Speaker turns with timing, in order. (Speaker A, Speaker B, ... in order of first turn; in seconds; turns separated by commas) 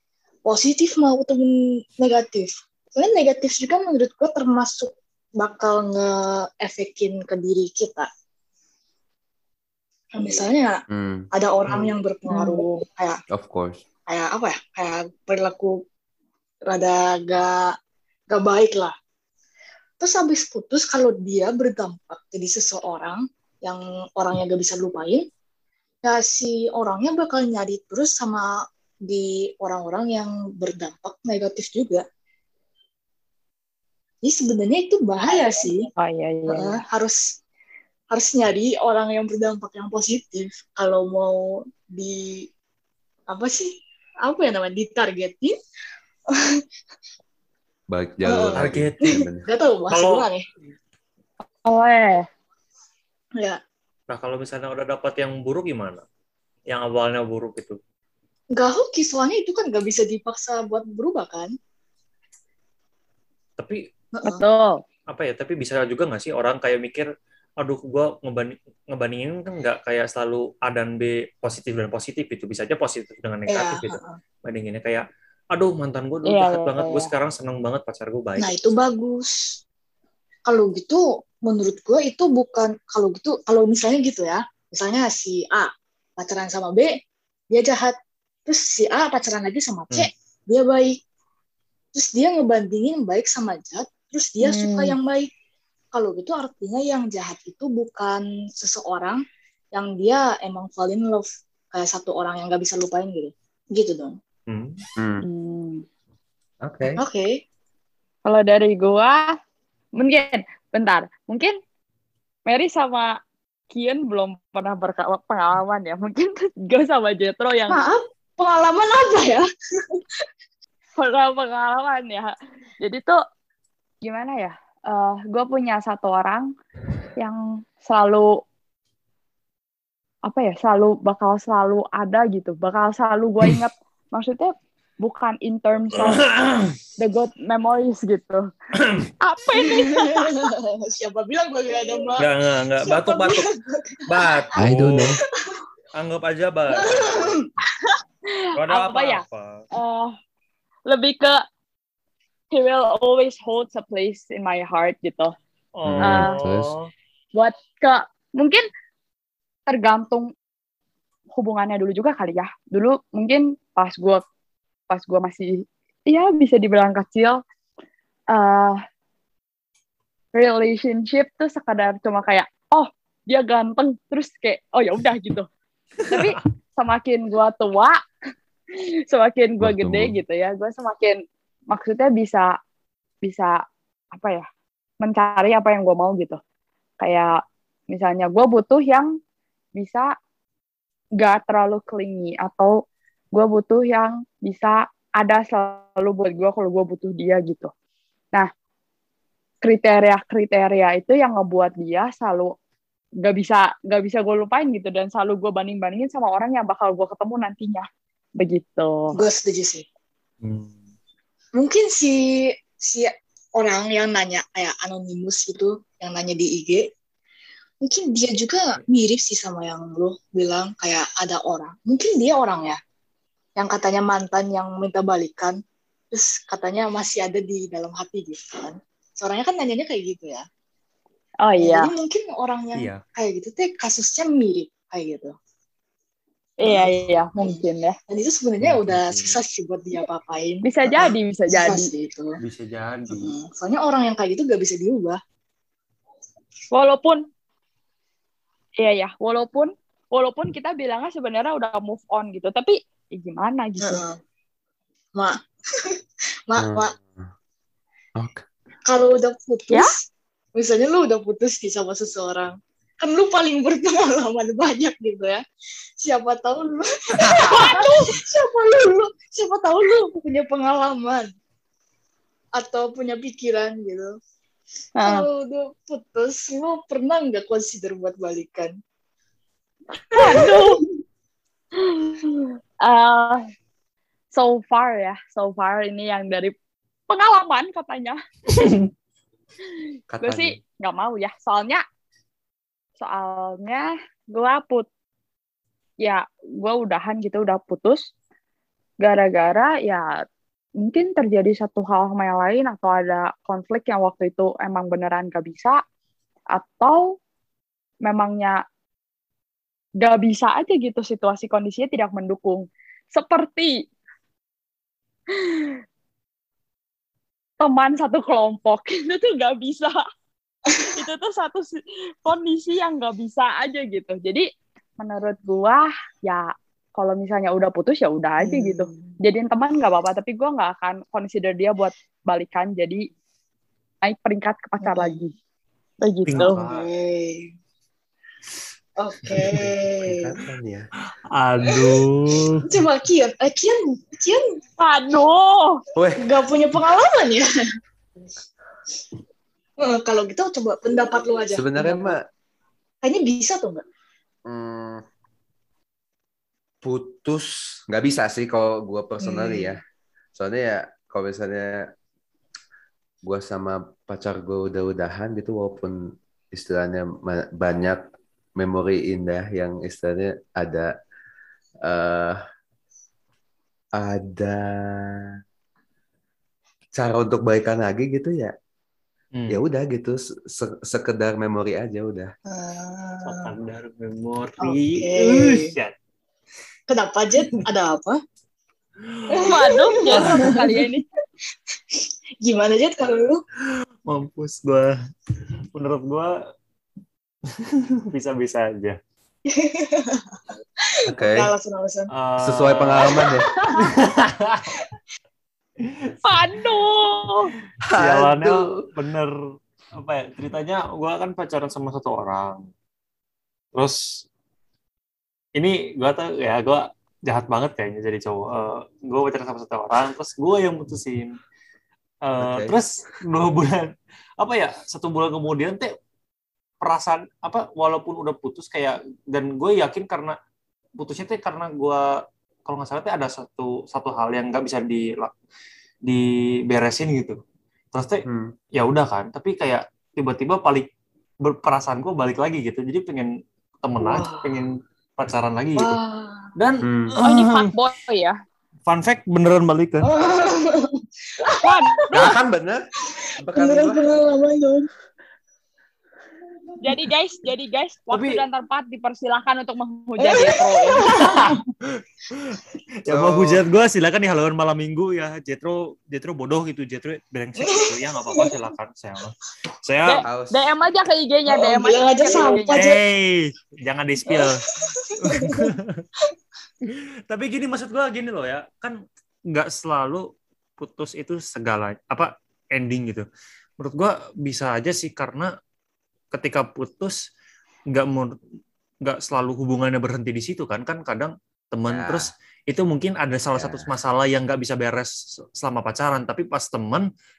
Speaker A: 0.5-8.1, Speaker A: 10.1-10.8, Speaker B: 10.9-11.2, Speaker A: 11.3-13.2, Speaker C: 11.6-11.9, Speaker D: 12.3-12.6, Speaker B: 13.3-13.8, Speaker A: 14.1-15.8, Speaker A: 16.6-17.7, Speaker A: 18.3-18.9, Speaker A: 20.0-25.2, Speaker A: 26.0-28.5, Speaker A: 29.1-32.0, Speaker A: 34.2-35.9, Speaker D: 36.0-36.8, Speaker A: 36.5-37.2, Speaker A: 38.1-42.5, Speaker A: 43.3-43.7, Speaker A: 44.2-45.5, Speaker A: 46.3-46.6, Speaker B: 47.9-49.5, Speaker A: 48.2-50.4, Speaker C: 48.6-49.2, Speaker C: 49.9-50.3, Speaker D: 51.6-52.2, Speaker C: 54.1-56.0, Speaker C: 56.7-57.8, Speaker A: 58.5-61.5, Speaker A: 64.1-64.4, Speaker D: 64.2-64.8, Speaker C: 65.1-67.1, Speaker C: 67.6-78.8, Speaker A: 73.5-74.2, Speaker D: 76.2-77.1, Speaker A: 78.4-79.5, Speaker A: 80.5-86.9, Speaker A: 87.5-91.0, Speaker A: 91.9-95.3, Speaker D: 94.4-95.0, Speaker A: 95.9-99.2, Speaker A: 99.7-104.2, Speaker C: 104.5-104.8, Speaker B: 105.0-105.2, Speaker D: 105.2-105.8, Speaker C: 106.7-107.0, Speaker A: 107.0-107.3, Speaker D: 108.2-109.3, Speaker D: 110.0-111.6, Speaker D: 112.5-113.1, Speaker D: 113.7-117.8, Speaker A: 117.7-120.0, Speaker D: 121.0-123.2, Speaker D: 124.0-126.5, Speaker D: 127.2-128.3, Speaker D: 130.2-136.2, Speaker C: 136.0-136.7, Speaker D: 137.0-138.4, Speaker D: 139.2-140.4, Speaker A: 139.5-142.3, Speaker C: 142.2-143.5, Speaker A: 142.8-144.4, Speaker C: 144.1-145.2, Speaker B: 144.6-145.2, Speaker C: 145.9-147.4, Speaker A: 146.7-147.5, Speaker D: 148.3-149.2, Speaker C: 148.6-149.6, Speaker D: 149.7-150.1, Speaker D: 150.9-151.4, Speaker D: 152.5-155.3, Speaker C: 155.8-156.9, Speaker B: 155.8-156.7, Speaker D: 156.0-156.3, Speaker D: 157.3-158.6, Speaker D: 159.7-160.3, Speaker D: 161.3-164.2, Speaker D: 164.9-167.4, Speaker D: 168.3-168.8, Speaker D: 170.3-175.5, Speaker D: 176.1-178.0, Speaker D: 179.1-182.5, Speaker B: 179.6-180.2, Speaker D: 183.2-183.6, Speaker D: 184.1-184.4, Speaker D: 185.0-186.4, Speaker D: 187.0-187.3, Speaker D: 187.9-189.1, Speaker D: 189.8-190.1, Speaker D: 191.2-192.7, Speaker D: 193.3-197.7, Speaker D: 199.6-202.5, Speaker D: 203.2-207.8, Speaker D: 208.4-209.2, Speaker A: 209.1-209.8, Speaker C: 210.4-210.7, Speaker A: 211.6-216.8, Speaker A: 217.8-222.8, Speaker A: 223.6-225.6, Speaker A: 226.1-230.4, Speaker D: 231.4-231.9, Speaker A: 231.6-235.3, Speaker C: 232.8-233.0, Speaker D: 236.6-237.9, Speaker A: 236.6-242.4, Speaker C: 238.6-239.4, Speaker D: 240.6-241.9, Speaker C: 242.4-243.3, Speaker A: 243.1-245.2, Speaker D: 246.7-247.2, Speaker D: 248.8-254.0, Speaker A: 253.8-254.2, Speaker A: 255.2-256.9, Speaker B: 256.6-257.3, Speaker B: 258.1-258.4, Speaker A: 258.9-265.4, Speaker A: 266.0-271.3, Speaker C: 267.2-267.8, Speaker A: 272.5-274.1, Speaker D: 275.0-275.3, Speaker A: 275.0-278.7, Speaker D: 280.1-280.8, Speaker A: 280.1-280.9, Speaker D: 281.8-283.4, Speaker D: 284.3-286.5, Speaker D: 287.1-288.2, Speaker C: 288.5-288.9, Speaker B: 290.1-290.6, Speaker D: 290.2-291.8, Speaker D: 293.0-294.9, Speaker D: 296.0-298.1, Speaker D: 299.0-300.1, Speaker D: 300.8-305.8, Speaker D: 306.6-307.1, Speaker D: 308.1-308.6, Speaker D: 310.0-313.8, Speaker D: 315.4-315.7, Speaker D: 317.6-320.0, Speaker D: 320.9-324.4, Speaker D: 325.0-333.1, Speaker A: 328.4-329.2, Speaker D: 334.0-335.3, Speaker A: 334.8-335.2, Speaker D: 336.0-336.6, Speaker C: 336.3-336.9, Speaker A: 336.3-337.5, Speaker A: 339.0-340.3, Speaker C: 339.3-339.6, Speaker B: 340.0-340.9, Speaker C: 341.3-342.6, Speaker A: 341.7-344.4, Speaker D: 344.8-345.8, Speaker B: 345.9-346.2, Speaker A: 346.2-347.5, Speaker A: 349.8-352.1, Speaker B: 351.5-352.2, Speaker A: 353.0-353.8, Speaker B: 354.4-355.0, Speaker B: 356.8-359.8, Speaker A: 359.2-359.8, Speaker B: 360.4-361.8, Speaker B: 363.2-366.0, Speaker B: 366.5-368.0, Speaker B: 368.6-370.9, Speaker B: 371.8-372.4, Speaker B: 373.9-375.3, Speaker B: 376.9-378.5, Speaker B: 379.5-382.3, Speaker A: 382.5-383.5, Speaker C: 383.2-385.9, Speaker A: 384.6-385.7, Speaker A: 386.9-388.2, Speaker C: 389.1-389.4, Speaker A: 389.3-390.7, Speaker D: 389.4-391.0, Speaker C: 390.1-390.6, Speaker A: 391.9-393.4, Speaker C: 394.1-394.9, Speaker C: 395.7-396.3, Speaker C: 397.5-399.0, Speaker A: 399.4-402.1, Speaker B: 401.1-401.5, Speaker C: 402.1-404.8, Speaker B: 402.4-403.5, Speaker A: 403.0-404.0, Speaker C: 405.8-406.4, Speaker D: 406.2-407.5, Speaker B: 407.9-408.8, Speaker C: 408.0-409.3, Speaker C: 409.9-412.7, Speaker C: 413.7-414.2, Speaker C: 415.6-421.3, Speaker C: 422.2-425.9, Speaker B: 422.4-422.8, Speaker C: 426.8-430.4, Speaker C: 431.0-432.1, Speaker C: 432.6-435.3, Speaker C: 436.1-437.4, Speaker C: 437.9-438.2, Speaker B: 438.2-438.5, Speaker C: 438.7-440.9, Speaker C: 441.4-446.0, Speaker A: 444.0-444.6, Speaker A: 445.8-446.5, Speaker C: 446.6-447.7, Speaker B: 446.8-447.1, Speaker D: 447.2-448.4, Speaker C: 448.9-450.1, Speaker A: 450.0-451.8, Speaker D: 451.6-452.3, Speaker B: 452.1-452.8, Speaker A: 453.1-454.9, Speaker B: 453.4-454.0, Speaker D: 456.8-461.1, Speaker C: 458.1-458.4, Speaker A: 460.2-461.6, Speaker C: 461.1-470.2, Speaker B: 463.1-463.6, Speaker A: 467.6-468.5, Speaker D: 470.0-472.8, Speaker B: 470.2-470.7, Speaker A: 471.5-473.0, Speaker C: 472.8-474.6, Speaker A: 474.3-475.7, Speaker C: 475.2-476.0, Speaker C: 476.8-479.0, Speaker C: 479.5-480.2, Speaker C: 480.8-483.2, Speaker C: 483.8-485.5, Speaker C: 486.3-487.2, Speaker C: 487.9-488.3, Speaker C: 489.0-497.1, Speaker B: 491.9-492.3, Speaker B: 493.6-493.9